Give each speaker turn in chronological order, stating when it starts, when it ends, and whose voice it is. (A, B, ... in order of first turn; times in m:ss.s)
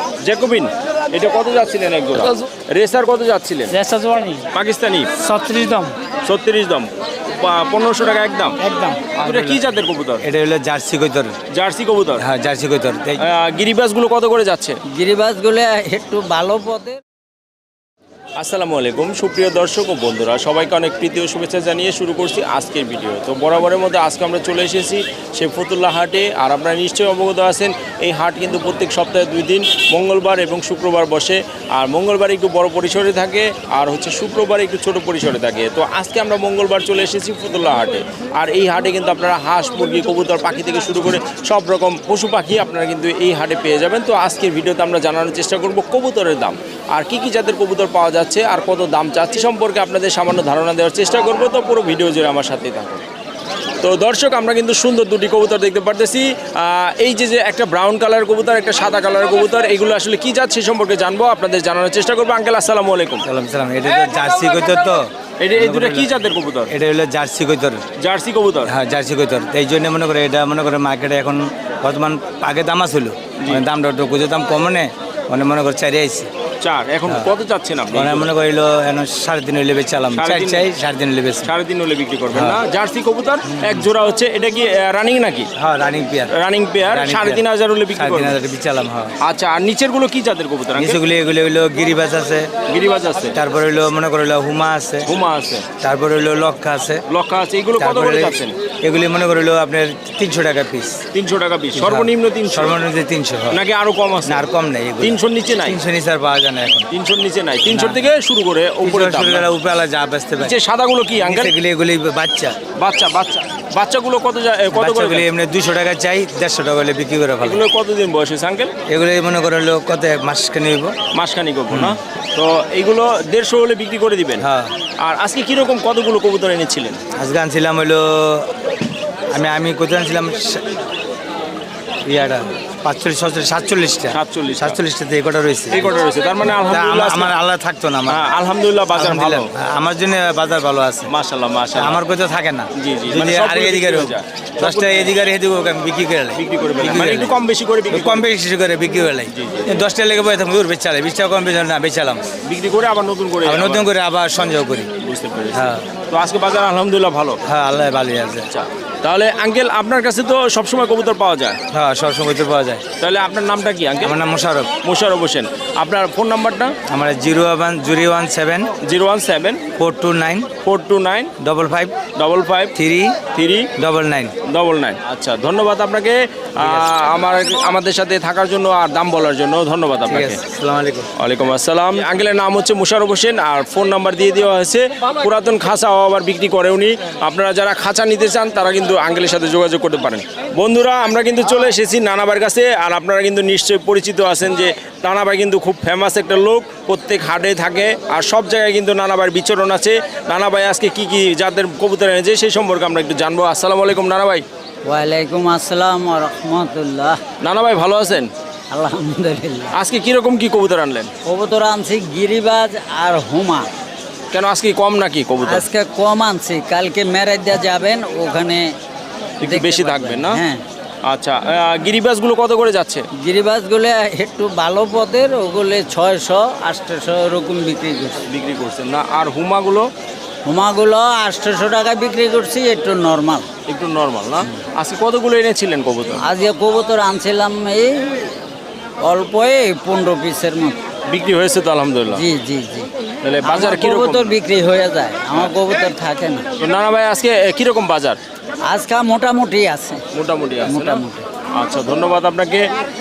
0:00.2-0:03.7 A
0:03.7-0:04.4 B
0:04.5-0:05.1 A
0:05.2-0:05.9 B
0:06.3-0:08.6 A
0:08.6-0:09.0 B
0:09.2-0:10.2 A
0:09.2-0:11.4 C
0:11.5-0:12.2 A
0:12.2-0:13.2 C
0:13.2-0:14.8 A
0:14.9-0:17.0 D
0:18.4-0:53.0 A
0:53.8-1:03.3 A
1:03.2-1:06.2 C
1:05.4-1:06.7 A
1:06.7-1:07.8 C
1:08.0-1:08.7 A
1:08.7-1:16.3 C
1:13.4-1:13.6 A
1:16.6-1:18.3 A
1:17.9-1:21.5 C
1:20.1-1:20.7 A
1:21.4-1:25.5 A
1:22.3-1:22.6 C
1:23.4-1:23.9 C
1:25.6-1:26.3 C
1:26.3-1:28.4 A
1:26.8-1:29.1 C
1:29.2-1:31.0 A
1:30.7-1:32.5 C
1:32.7-1:33.4 A
1:33.4-1:35.1 C
1:35.0-1:35.6 A
1:35.8-1:37.0 C
1:37.1-1:38.6 A
1:37.8-1:41.0 C
1:41.1-1:42.8 A
1:41.8-1:43.6 C
1:43.5-1:44.5 A
1:44.2-1:46.9 C
1:45.0-1:45.8 A
1:46.9-1:49.5 A
1:47.7-1:48.1 C
1:48.8-1:50.6 C
1:50.4-1:51.5 A
1:51.2-1:52.6 C
1:52.8-1:55.3 A
1:54.7-1:57.6 C
1:57.4-1:58.7 A
1:58.9-2:01.0 C
2:01.1-2:04.4 A
2:01.7-2:02.0 C
2:04.4-2:04.7 C
2:05.0-2:07.0 A
2:07.2-2:08.5 C
2:09.3-2:10.7 C
2:12.0-2:15.9 C
2:14.1-2:14.8 A
2:15.7-2:17.4 A
2:16.6-2:18.2 C
2:18.1-2:19.5 A
2:18.9-2:21.1 C
2:21.1-2:22.0 A
2:21.8-2:27.4 C
2:22.8-2:25.1 A
2:26.4-2:28.3 A
2:27.9-2:32.2 C
2:29.3-2:29.8 A
2:32.4-2:33.9 A
2:33.4-2:34.9 C
2:35.0-2:37.4 A
2:35.5-2:35.8 C
2:37.5-2:38.5 C
2:38.5-2:41.6 A
2:41.7-2:42.8 C
2:43.0-2:44.2 A
2:44.0-2:44.7 C
2:44.8-2:46.8 A
2:46.9-2:48.7 C
2:48.8-2:49.6 A
2:49.8-2:50.5 C
2:50.6-2:51.3 A
2:51.4-2:52.0 C
2:52.2-2:52.7 A
2:52.8-2:53.2 C
2:53.3-2:53.7 A
2:53.8-2:54.3 C
2:54.4-3:00.4 A
2:56.6-2:56.9 C
3:00.1-3:01.1 C
3:01.2-3:24.4 A
3:24.8-3:27.2 D
3:27.4-3:28.3 A
3:28.7-3:29.7 D
3:29.7-3:31.1 A
3:31.2-3:33.7 D
3:34.3-3:35.7 A
3:35.4-3:38.7 D
3:39.4-3:40.4 A
3:39.4-3:40.6 D
3:41.1-3:43.1 A
3:43.2-3:48.2 D
3:48.3-3:49.9 A
3:50.5-3:53.5 D
3:53.7-3:56.2 A
3:56.2-3:58.0 D
3:59.0-4:00.8 D
4:01.1-4:02.3 A
4:02.1-4:02.9 D
4:03.2-4:04.3 A
4:03.4-4:06.5 D
4:06.6-4:08.2 A
4:08.7-4:10.0 D
4:10.1-4:11.0 A
4:10.6-4:11.2 D
4:11.6-4:12.7 A